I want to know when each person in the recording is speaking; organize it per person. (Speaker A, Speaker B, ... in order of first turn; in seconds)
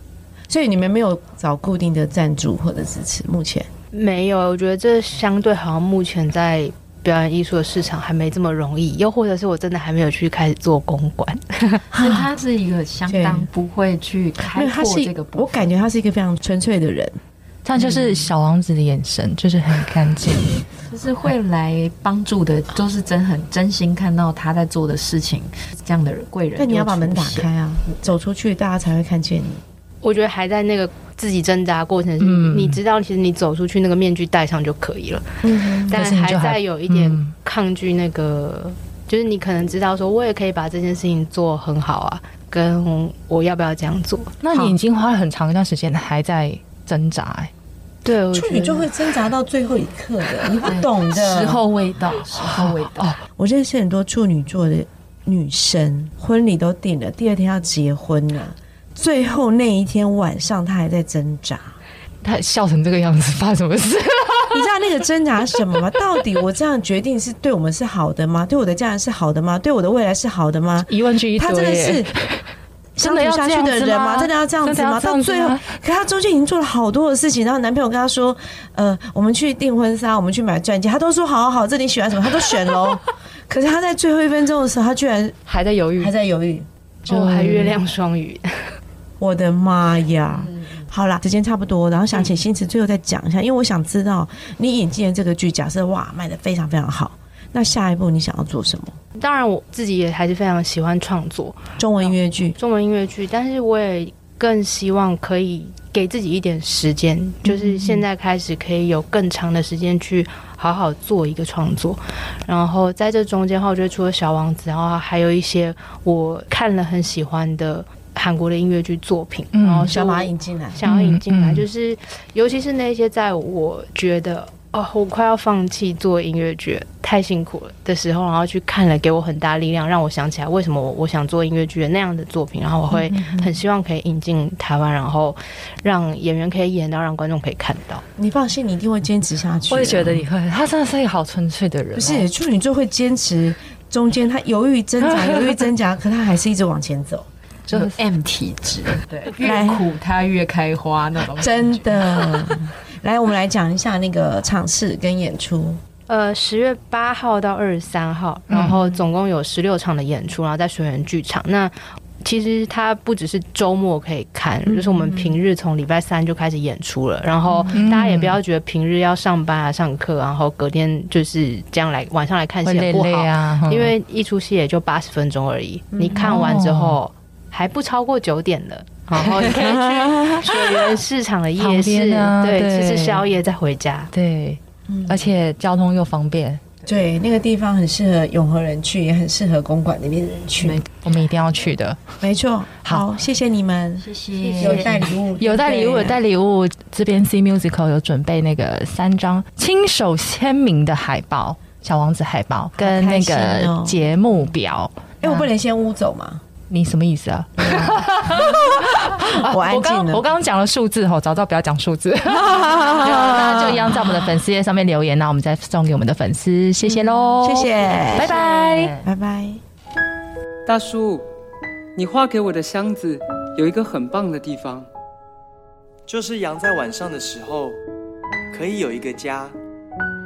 Speaker A: 0.5-3.7, 11.9-12.2, 13.1-13.5, 14.4-17.2, 26.6-29.6, 35.4-36.2, 48.3-51.6, 53.4-61.8, 64.5-72.1, 72.9-85.4, 86.0-86.7, 89.2-99.0, 101.8-102.6, 107.5-108.0, 119.9-120.8, 132.9-133.6, 138.2-140.3, 141.9-147.3, 149.4-149.9, 151.3-155.8, 175.9-176.5, 179.4-180.6, 184.9-185.3, 186.9-190.8, 192.2-196.2, 202.8-204.1, 205.2-206.4, 207.6-210.3, 212.2-214.4, 216.9-218.4, 219.0-219.6
Speaker B: 3.9-11.9, 30.0-35.3, 35.9-44.7, 48.0-48.9, 87.1-88.8, 99.2-138.0, 156.1-184.1, 194.4-195.1
Speaker C: 11.9-15.7, 17.8-18.3, 20.8-27.5, 50.6-53.2, 90.4-90.8, 147.7-152.4, 190.6-190.9, 194.0-195.2
Speaker D: 17.6-20.6, 32.2-32.8, 35.9-37.3, 44.4-47.5, 52.4-53.2, 62.2-64.7, 70.9-72.4, 73.0-75.7, 85.5-86.1, 87.1-87.8, 119.5-119.9, 120.8-121.7, 139.7-142.3, 147.7-147.9, 158.5-158.8, 167.7-168.4, 172.6-173.9, 176.1-177.0, 181.6-183.2, 184.1-186.6, 191.0-192.0, 195.4-205.5, 206.7-219.0
Speaker E: 220.7-221.2, 221.9-224.9
Speaker F: 226.1-227.8, 228.5-229.6